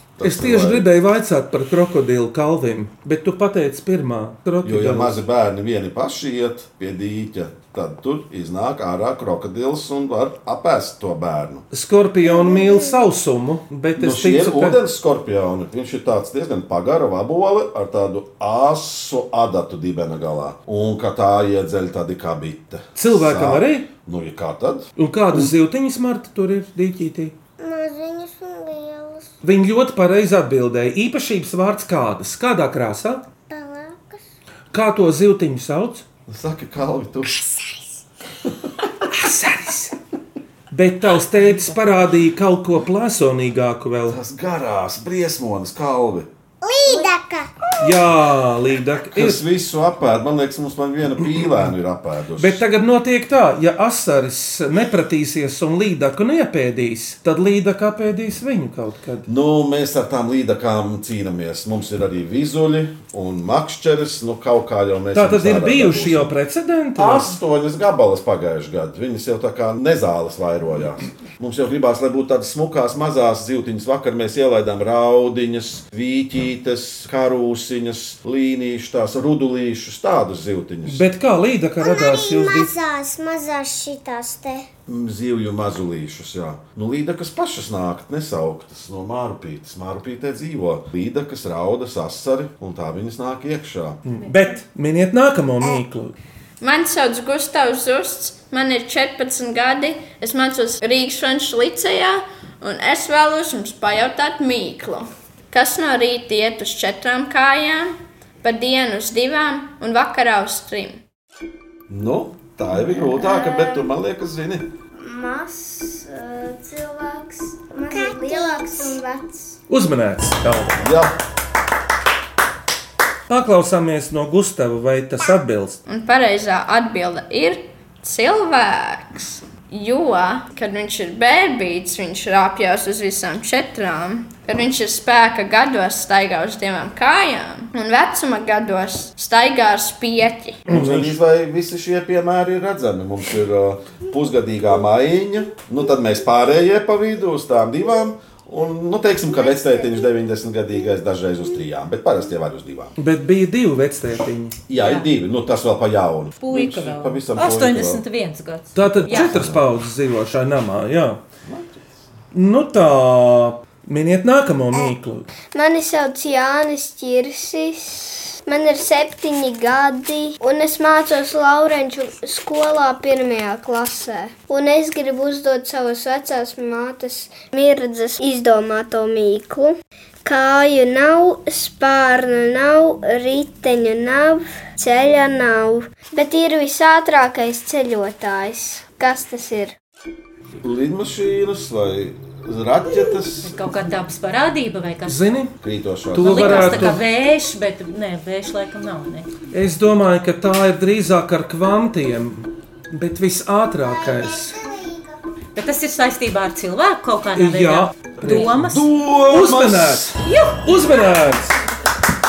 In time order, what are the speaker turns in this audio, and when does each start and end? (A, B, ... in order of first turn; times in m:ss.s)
0:00.2-0:00.9 A
0:00.2-0:05.2 B
0:04.6-0:11.6 A
0:11.7-0:14.8 B
0:14.0-0:25.5 A
0:23.0-0:23.9 B
0:25.0-0:27.3 B
0:27.6-0:29.1 C
0:29.4-0:33.2 B
0:33.5-0:34.2 C
0:34.7-0:36.0 B
0:36.3-0:37.4 A
0:37.4-0:38.0 C
0:39.1-0:40.0 B
0:40.7-0:44.2 B
0:44.1-0:46.3 A
0:46.6-0:47.5 C
0:47.8-0:49.4 B
0:49.1-0:52.6 A
0:52.4-0:59.3 B
0:59.3-1:06.3 A
1:05.1-1:07.4 B
1:07.0-1:21.0 A
1:20.8-1:22.7 B
1:21.8-1:24.7 C
1:24.9-1:34.0 A
1:34.0-1:36.2 B
1:34.2-1:34.6 D
1:36.6-1:51.0 E
1:51.9-1:54.7 A
1:52.8-1:53.8 F
1:55.0-1:59.6 F
1:57.9-1:59.0 C
1:59.7-2:00.8 B
2:00.8-2:01.1 A
2:03.3-2:05.8 B
2:05.9-2:20.6 E
2:20.7-2:21.2 B
2:20.7-2:32.9 A
2:33.0-2:34.6 B
2:34.7-2:38.0 A
2:34.8-2:35.1 D
2:36.4-2:39.3 D
2:38.7-2:41.2 B
2:39.1-2:39.6 A
2:41.4-2:41.8 A
2:42.3-2:45.3 B
2:45.5-3:09.7 F
3:10.6-3:13.6 A
3:13.4-3:15.2 D
3:15.0-3:15.5 B
3:15.6-3:17.0 A
3:16.1-3:17.0 B
3:16.2-3:19.3 D
3:19.5-3:24.6 B
3:23.7-3:25.2 C
3:25.5-3:28.9 D
3:27.3-3:28.7 B
3:28.3-3:30.1 A
3:29.3-3:31.6 B
3:30.2-3:30.6 D